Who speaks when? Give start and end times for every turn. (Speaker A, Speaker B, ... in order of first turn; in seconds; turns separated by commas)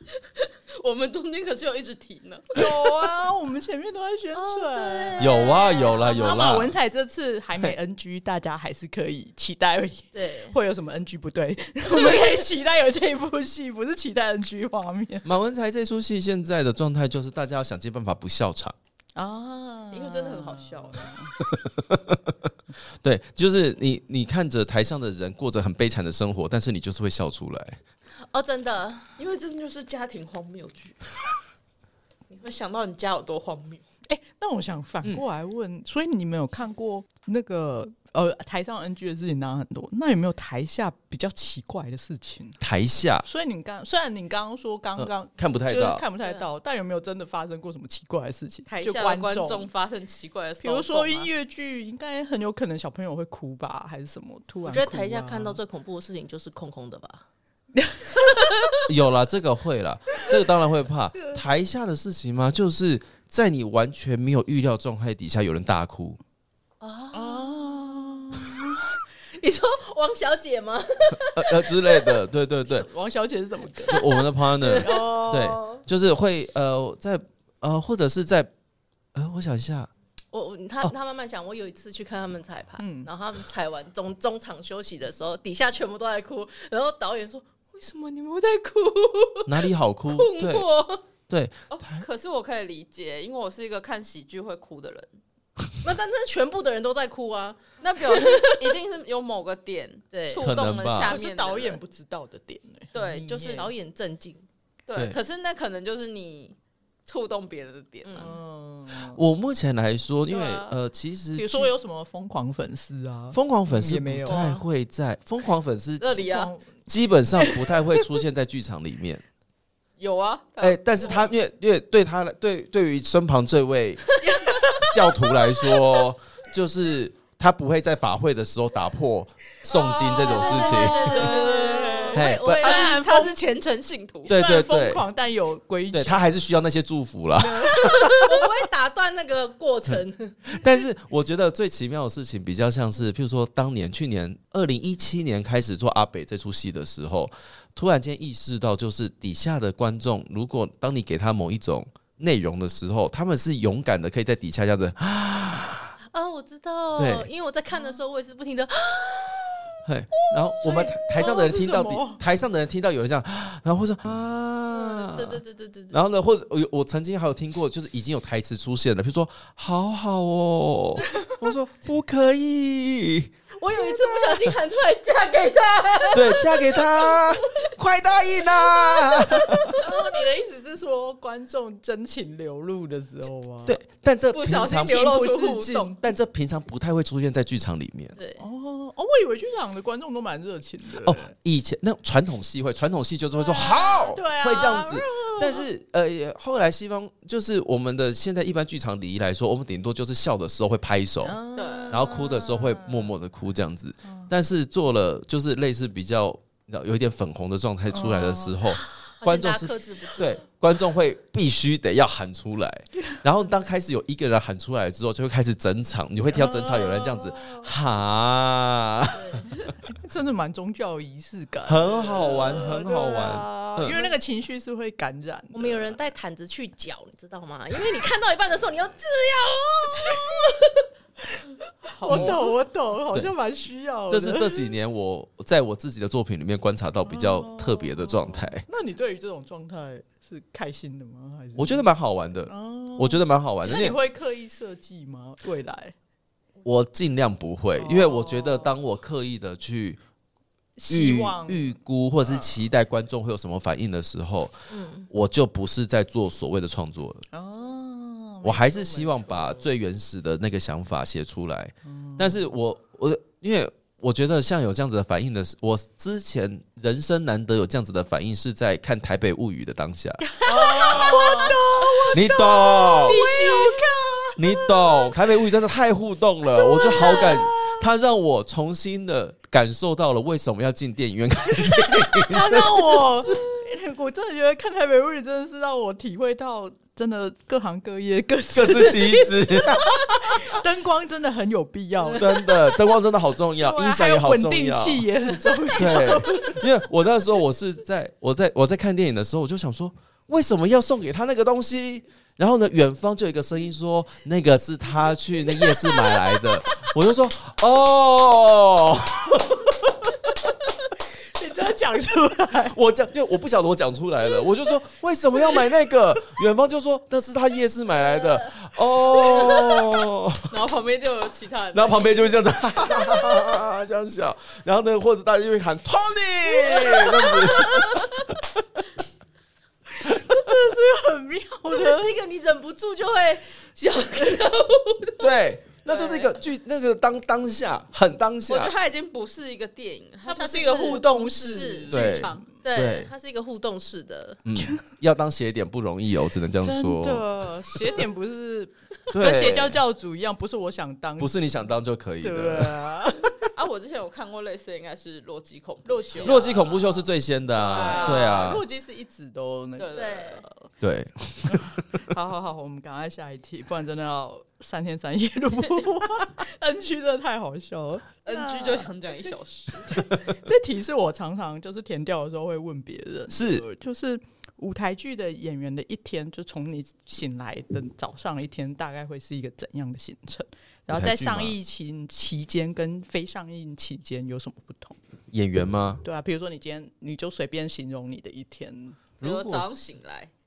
Speaker A: 0.4-2.8, Speaker B: 2.5-15.2, Speaker C: 4.4-6.3, Speaker D: 5.2-6.8, Speaker C: 10.1-10.6, Speaker C: 11.9-12.3, Speaker D: 15.2-18.8, Speaker B: 19.2-21.3, Speaker A: 19.9-21.1, Speaker D: 21.4-22.5, Speaker D: 23.0-27.8, Speaker C: 28.2-29.1, Speaker A: 29.2-31.0, Speaker A: 32.3-33.8, Speaker B: 34.1-42.6, Speaker D: 42.6-43.3, Speaker B: 43.2-49.7, Speaker D: 45.0-46.0, Speaker A: 48.7-51.3, Speaker B: 50.6-55.6, Speaker C: 54.6-57.2, Speaker B: 57.8-58.5, Speaker D: 58.9-66.2, Speaker C: 66.8-67.7, Speaker B: 67.1-68.8, Speaker C: 69.3-72.2, Speaker D: 71.3-72.9, Speaker B: 72.7-74.1, Speaker D: 73.9-78.5, Speaker C: 73.9-75.8, Speaker B: 74.8-75.6, Speaker D: 79.1-79.9, Speaker C: 80.3-91.0, Speaker B: 82.8-83.1, Speaker D: 89.5-90.7, Speaker D: 91.3-92.1, Speaker A: 91.7-95.1, Speaker C: 95.8-98.8, Speaker A: 97.8-101.8, Speaker C: 100.1-100.5, Speaker D: 100.4-101.2, Speaker B: 101.0-103.7, Speaker A: 102.9-103.7, Speaker C: 103.5-104.5, Speaker A: 104.9-108.3, Speaker C: 108.0-108.3, Speaker B: 108.2-109.2, Speaker D: 109.1-111.7, Speaker A: 110.3-110.7, Speaker B: 111.3-114.6, Speaker D: 113.3-116.3, Speaker A: 116.0-116.5, Speaker B: 116.2-116.8, Speaker D: 116.9-119.2, Speaker B: 117.4-117.7, Speaker A: 120.0-121.3, Speaker D: 120.6-124.1, Speaker B: 124.2-125.3, Speaker D: 124.8-131.3, Speaker A: 129.9-134.3, Speaker C: 130.1-133.0, Speaker B: 130.2-133.4, Speaker D: 132.1-132.8, Speaker D: 134.3-135.0, Speaker B: 134.3-136.3, Speaker D: 135.9-138.3, Speaker B: 137.4-138.2, Speaker C: 138.1-140.6, Speaker D: 140.5-156.0, Speaker C: 156.1-159.6, Speaker D: 157.0-157.3, Speaker D: 159.8-173.3, Speaker B: 160.6-162.2, Speaker C: 164.7-166.0, Speaker C: 173.6-177.4, Speaker D: 176.1-179.8, Speaker C: 178.4-179.8, Speaker B: 179.7-183.8, Speaker D: 183.6-185.2, Speaker A: 184.3-185.9, Speaker B: 184.8-186.0, Speaker D: 186.0-188.2, Speaker C: 188.2-188.4, Speaker B: 188.4-191.3, Speaker D: 191.0-201.4, Speaker B: 193.4-195.7, Speaker B: 201.2-203.1, Speaker A: 201.6-202.0, Speaker D: 201.9-219.6, Speaker B: 204.0-204.3, Speaker B: 207.9-208.6, Speaker C: 209.2-210.4, Speaker B: 216.3-217.7, Speaker C: 219.1-219.5, Speaker B: 219.8-225.9, Speaker D: 221.7-223.9, Speaker C: 223.9-224.1, Speaker C: 225.5-230.9, Speaker A: 232.0-232.5, Speaker B: 232.0-234.6, Speaker D: 232.1-232.4, Speaker D: 234.1-238.7, Speaker B: 237.0-241.9, Speaker D: 241.6-244.0, Speaker B: 242.5-245.9, Speaker D: 246.6-250.0, Speaker B: 247.8-248.8, Speaker B: 250.8-252.5, Speaker D: 250.9-254.5, Speaker C: 254.7-255.1, Speaker D: 255.1-257.2, Speaker B: 257.3-259.7, Speaker D: 258.4-270.3, Speaker B: 261.9-262.4, Speaker B: 270.4-275.1, Speaker C: 270.5-271.6, Speaker D: 272.1-273.2, Speaker A: 273.0-273.6, Speaker D: 274.4-283.4, Speaker B: 276.6-277.8, Speaker B: 282.2-292.5, Speaker D: 288.6-290.6, Speaker D: 292.1-295.1, Speaker B: 293.6-296.6, Speaker D: 295.8-310.1, Speaker B: 311.4-312.8, Speaker D: 312.7-320.5, Speaker C: 318.2-318.5, Speaker A: 320.5-322.1, Speaker D: 321.7-328.4, Speaker B: 330.0-332.2, Speaker C: 331.7-335.4, Speaker D: 335.2-338.8, Speaker A: 335.9-336.3, Speaker A: 338.5-342.4, Speaker C: 340.3-341.9, Speaker B: 340.3-342.4, Speaker D: 341.9-343.1, Speaker C: 342.6-344.4, Speaker D: 344.4-348.0, Speaker B: 346.6-351.5, Speaker D: 349.1-349.8, Speaker D: 351.2-353.0, Speaker B: 352.2-353.4, Speaker A: 353.5-356.8, Speaker B: 355.9-356.7, Speaker D: 356.2-358.6, Speaker B: 357.5-360.7, Speaker A: 357.7-358.6, Speaker A: 359.8-360.4, Speaker C: 359.9-360.4, Speaker D: 360.8-361.7, Speaker B: 361.5-368.9, Speaker A: 368.2-370.1, Speaker B: 369.9-385.0, Speaker D: 373.3-373.6, Speaker D: 380.9-381.6, Speaker D: 385.3-386.0, Speaker B: 386.0-389.0, Speaker D: 389.2-389.8, Speaker A: 389.2-390.3